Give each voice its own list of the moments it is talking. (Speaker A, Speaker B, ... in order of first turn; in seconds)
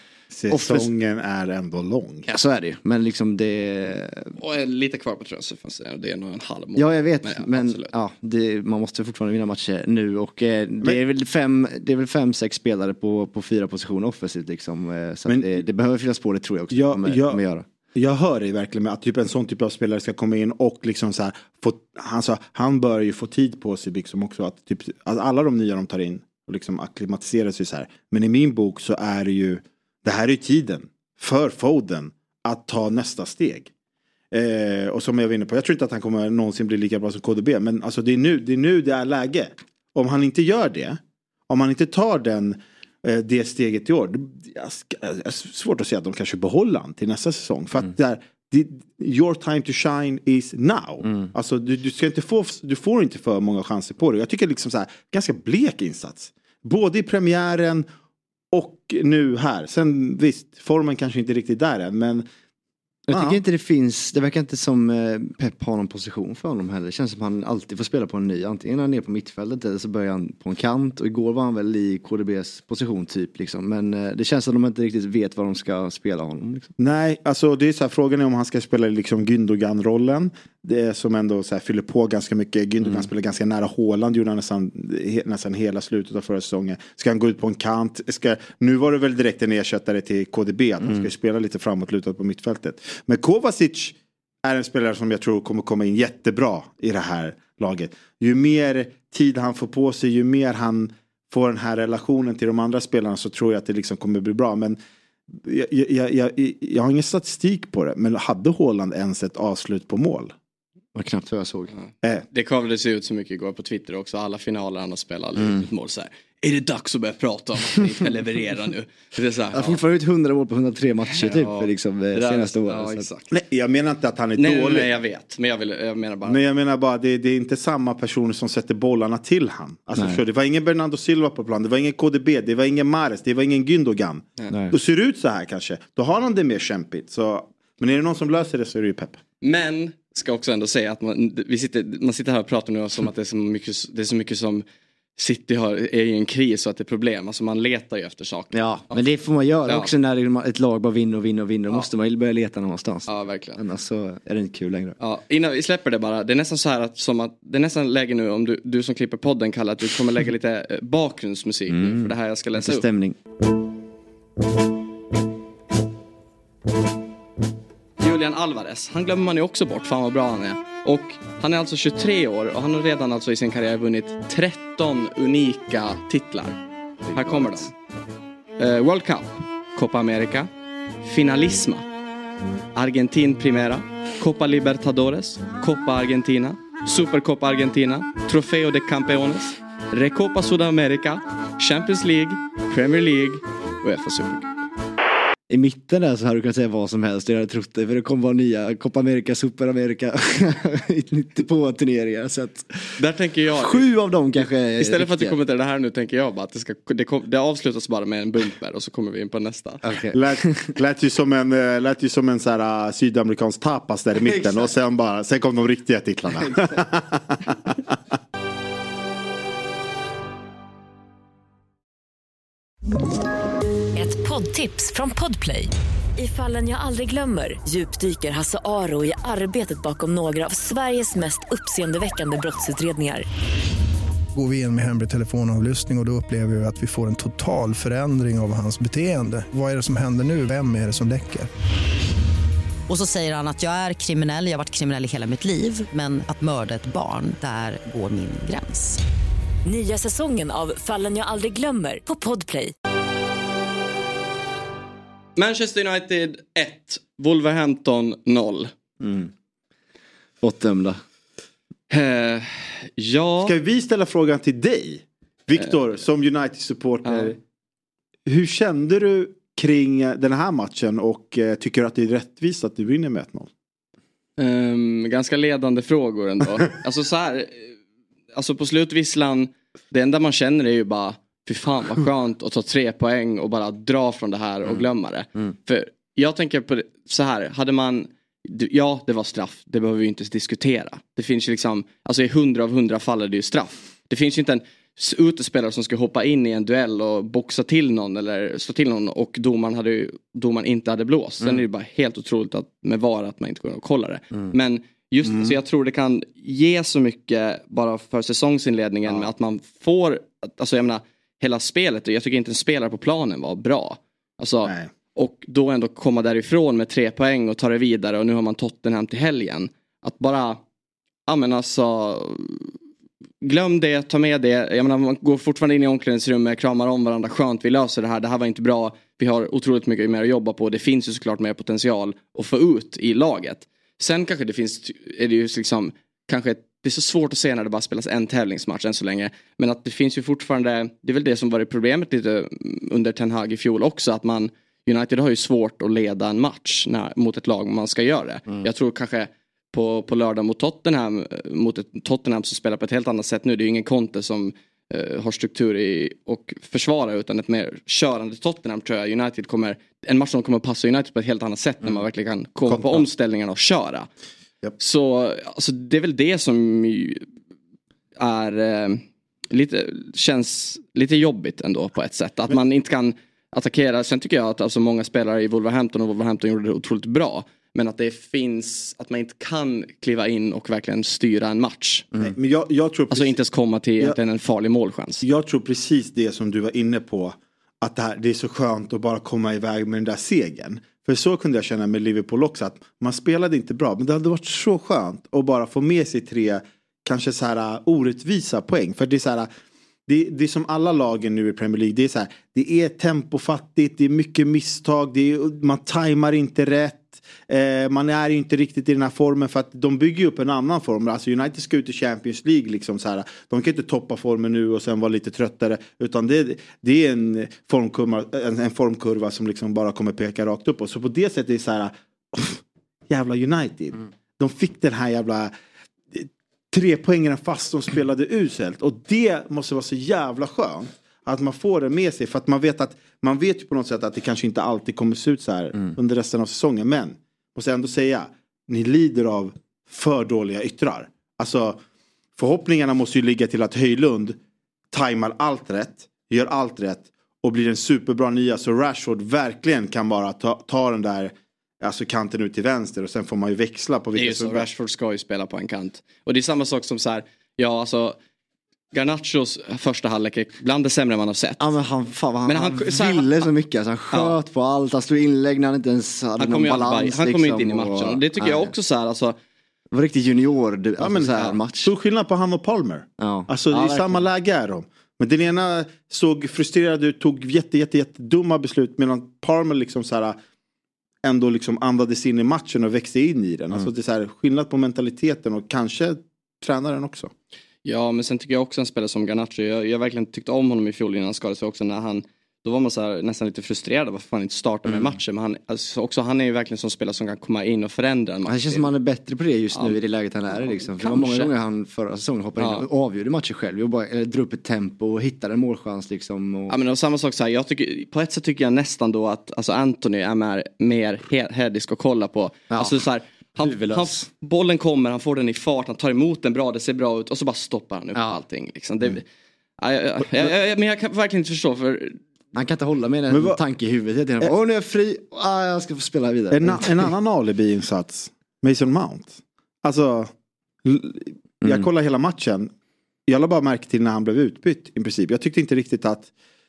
Speaker A: 0.3-2.3, 15.3-15.6, 16.7-17.4, 17.9-33.7, 34.3-57.9, 58.5-62.2, 63.1-63.4, 76.8-104.8, 105.3-110.3, 123.3-124.9, 126.3-139.2, 210.1-217.8, 263.4-267.4, 268.3-273.5, 305.3-305.5, 362.7-363.1, 382.2-383.4, 385.2-399.5, 400.1-425.5, 426.1-441.8, 442.4-444.4, 444.9-454.7, 471.0-480.4, 481.2-487.3, 523.3-523.6, 526.5-530.3, 530.8-532.7, 533.3-536.3
Speaker B: 0.5-0.9, 2.3-4.4, 6.8-17.7, 63.1-76.7, 82.8-83.1, 111.0-111.7, 119.5-123.1, 130.0-130.2, 148.5-155.0, 161.7-163.2, 177.1-177.6, 195.5-203.0, 203.5-205.4, 209.8-210.7, 214.2-214.7, 216.3-216.8, 259.0-259.3, 260.4-261.0, 461.6-468.7, 469.9-471.9, 473.2-474.3, 494.9-495.1, 498.5-506.8, 512.7-513.0, 513.6-514.3, 522.5-527.1
Speaker C: 4.4-7.9, 112.3-119.8, 121.2-123.3, 124.4-126.4, 139.4-144.6, 145.2-149.0, 153.1-153.6, 155.0-162.8, 168.0-176.6, 177.1-177.7, 178.6-180.5, 181.0-181.8, 182.8-194.5, 203.0-203.9, 204.8-209.8, 255.4-258.7, 261.9-263.5, 267.1-267.4, 274.4-277.8, 278.4-320.6, 321.3-322.7, 323.4-364.1, 364.8-367.2, 368.2-382.1, 383.1-385.2, 454.2-458.2, 458.9-461.7, 462.5-463.5, 466.4-469.4, 487.9-498.9, 500.5-501.5, 502.6-502.9, 506.7-519.2, 519.8-522.2
Speaker D: 223.9-233.2, 249.7-252.7
Speaker E: 234.3-241.5
Speaker F: 242.9-249.0